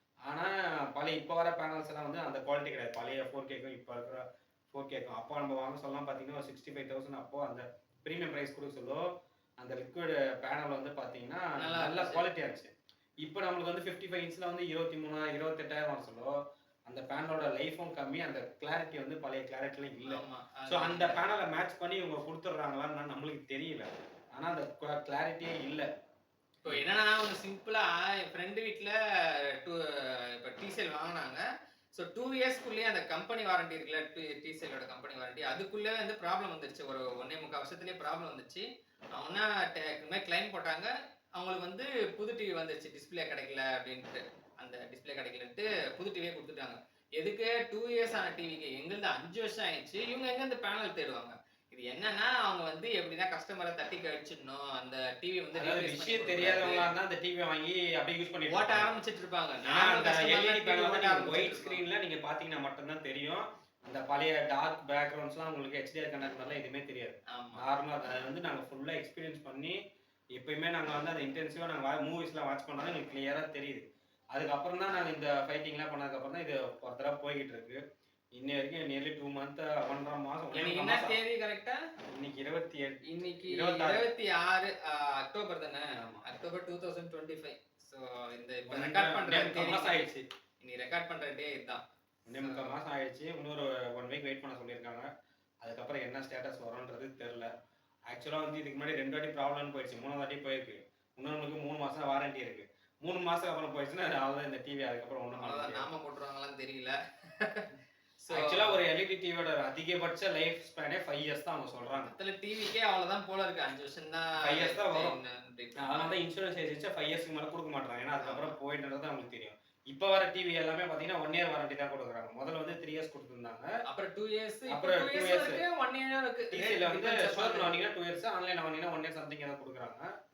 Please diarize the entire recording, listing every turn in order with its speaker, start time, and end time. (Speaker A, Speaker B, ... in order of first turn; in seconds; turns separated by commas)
Speaker A: 0.3-9.1, Speaker A: 9.6-12.7, Speaker B: 11.6-12.2, Speaker A: 13.2-16.3, Speaker A: 16.9-25.9, Speaker B: 20.0-21.2, Speaker B: 26.6-56.9, Speaker A: 55.6-59.0, Speaker B: 58.5-61.8, Speaker A: 59.6-69.8, Speaker B: 67.3-67.6, Speaker A: 70.3-77.8, Speaker A: 78.4-81.2, Speaker B: 80.5-81.8, Speaker A: 82.1-84.1, Speaker B: 83.1-90.1, Speaker A: 86.0-86.2, Speaker A: 88.7-90.2, Speaker B: 90.6-92.8, Speaker A: 92.3-95.1, Speaker A: 95.6-97.5, Speaker A: 98.1-105.9, Speaker B: 105.3-108.8, Speaker A: 108.3-112.1, Speaker B: 112.1-116.1, Speaker A: 114.4-115.1, Speaker A: 115.8-123.7, Speaker B: 118.2-118.5, Speaker B: 123.9-127.8, Speaker A: 124.7-125.6, Speaker A: 126.5-130.1